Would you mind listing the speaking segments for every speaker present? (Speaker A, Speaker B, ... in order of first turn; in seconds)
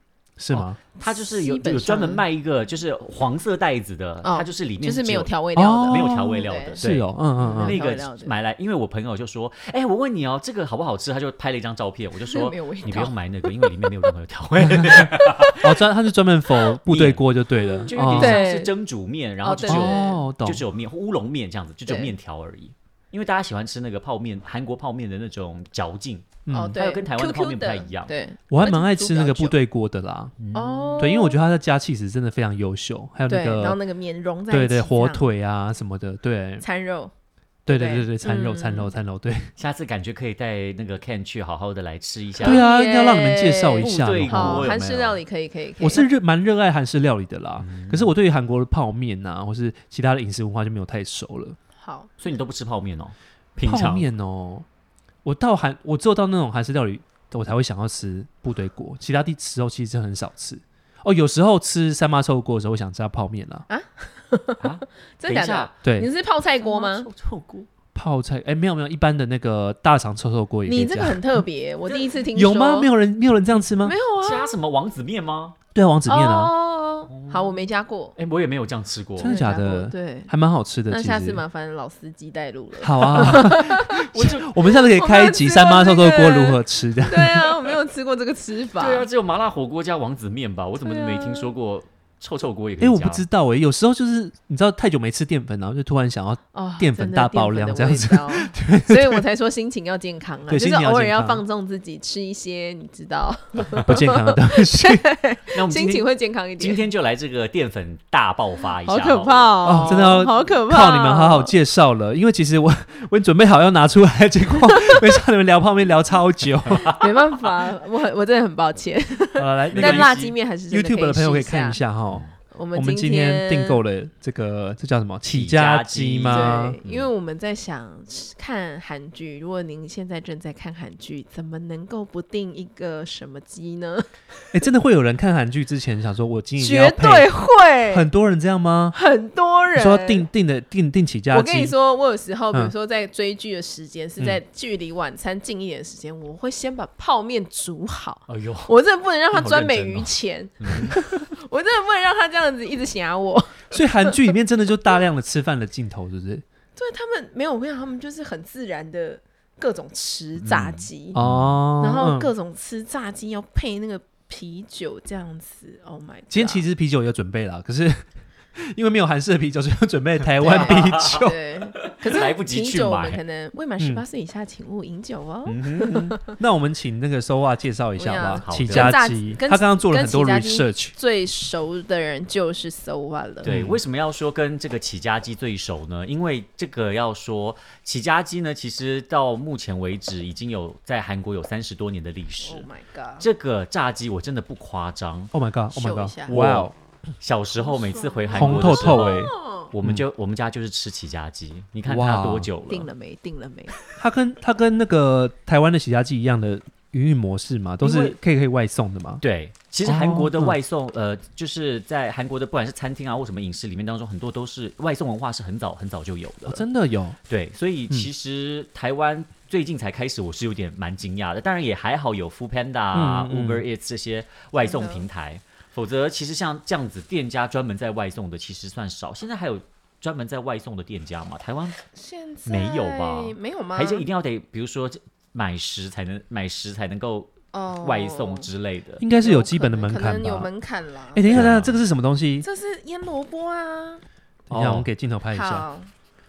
Speaker A: 0.4-0.8, 5.6-7.8, 14.6-18.4, 19.7-20.6, 26.5-26.8, 28.5-30.4, 31.0-33.8, 34.5-36.6, 37.7-39.5, 42.4-44.7, 45.8-51.6, 53.6-54.7, 55.2-63.6, 65.8-66.1, 68.0-71.4, 72.3-73.9, 75.8-76.5, 79.2-81.4, 82.8-87.6, 92.8-99.2, 100.5-101.4, 103.8-105.0, 109.6-116.9, 119.4-126.8, 134.5-137.3, 137.9-139.0, 139.8-141.8, 153.7-156.4, 161.2-162.3, 166.3-171.4, 176.3-180.9, 183.5-183.8, 195.3-196.7, 198.3-200.0, 201.9-202.5, 204.0-209.2, 209.8-210.6, 216.5-217.2, 222.9-223.6, 239.0-240.5, 241.1-242.4, 244.5-245.7
Speaker B: 0.5-5.3, 5.9-15.8, 16.9-17.2, 17.9-28.1, 30.4-31.1, 39.6-42.6, 43.8-45.2, 47.6-48.1, 52.2-54.1, 64.6-65.7, 66.6-67.7, 74.2-75.6, 77.1-77.6, 78.2-79.4, 84.0-84.5, 88.8-93.2, 105.5-110.1, 116.7-117.0, 119.7-120.3, 122.1-122.3, 125.3-127.1, 148.3-148.7, 149.3-151.0, 160.4-161.6, 170.4-173.2, 175.5-176.2, 178.4-179.0, 183.4-192.7, 193.2-195.3, 196.3-202.9, 207.8-208.2, 209.2-216.7, 217.3-231.8, 232.5-239.0, 241.3-241.8, 244.5-244.9
Speaker C: 1.0-2.2, 4.2-6.8, 7.4-8.3, 12.3-13.9, 17.5-18.7, 19.4-20.2, 21.9-22.1, 26.5-29.6, 30.5-31.4, 33.3-35.3, 36.6-37.1, 37.7-38.9, 42.4-46.1, 51.8-52.1, 63.7-67.1, 70.7-72.9, 73.8-74.6, 76.1-78.2, 79.2-80.3, 80.9-84.0, 84.7-89.1, 90.8-91.5, 96.5-106.8, 108.8-111.5, 116.9-121.8, 122.5-123.8, 126.3-134.1, 136.6-138.1, 138.9-140.3, 141.3-154.2, 156.8-161.2, 161.8-166.7, 170.4-176.3, 178.0-183.5, 192.4-193.3, 195.7-196.3, 197.6-199.7, 202.7-203.8, 224.6-225.1, 231.9-234.1, 237.5-238.5, 239.2-241.5, 242.4-244.0, 245.3-245.9